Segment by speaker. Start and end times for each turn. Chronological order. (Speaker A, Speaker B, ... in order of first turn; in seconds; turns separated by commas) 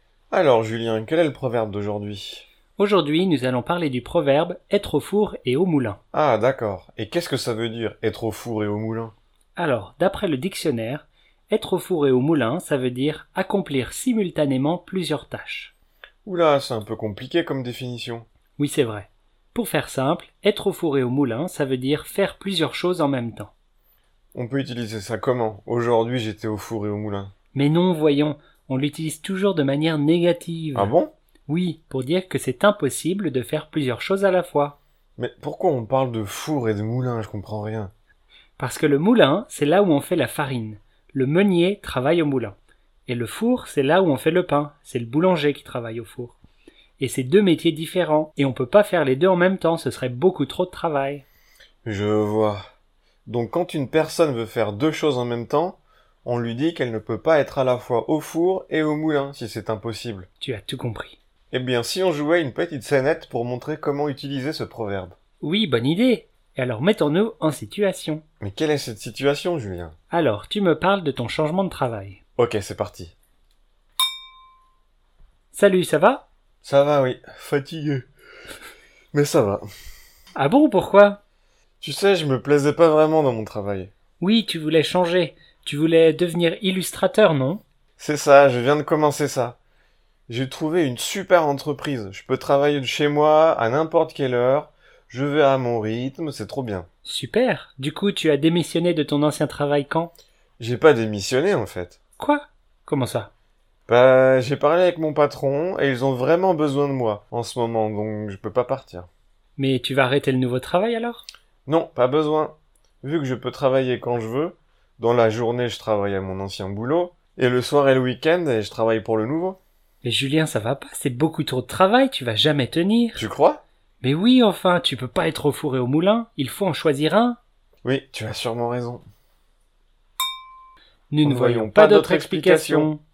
Speaker A: 0.3-2.5, Speaker B: 2.8-6.0, Speaker A: 6.1-9.1, Speaker B: 9.6-15.7, Speaker A: 16.2-18.3, Speaker B: 18.6-23.5, Speaker A: 24.3-27.3, Speaker B: 27.5-30.9, Speaker A: 30.8-31.1, Speaker B: 31.5-34.8, Speaker A: 35.2-37.9, Speaker B: 38.6-42.6, Speaker B: 43.1-46.4, Speaker B: 47.0-51.2, Speaker A: 51.9-52.6, Speaker A: 53.3-60.3, Speaker B: 60.4-61.2, Speaker A: 61.5-65.2, Speaker B: 65.4-68.2, Speaker A: 68.4-70.0, Speaker B: 70.1-72.2, Speaker A: 72.4-73.1, Speaker B: 75.5-76.3, Speaker A: 76.6-78.1, Speaker A: 79.1-79.7, Speaker B: 80.4-81.2, Speaker A: 81.8-83.9, Speaker B: 84.2-87.6, Speaker A: 88.0-89.6, Speaker A: 90.3-96.9, Speaker B: 97.0-100.1, Speaker A: 100.6-102.0, Speaker B: 102.2-103.3, Speaker A: 103.9-109.1, Speaker B: 109.6-111.2, Speaker A: 111.7-119.6, Speaker B: 120.0-123.3, Speaker A: 123.2-123.6, Speaker B: 124.0-127.4, Speaker A: 127.8-129.0, Speaker B: 131.1-133.0, Speaker A: 131.2-132.9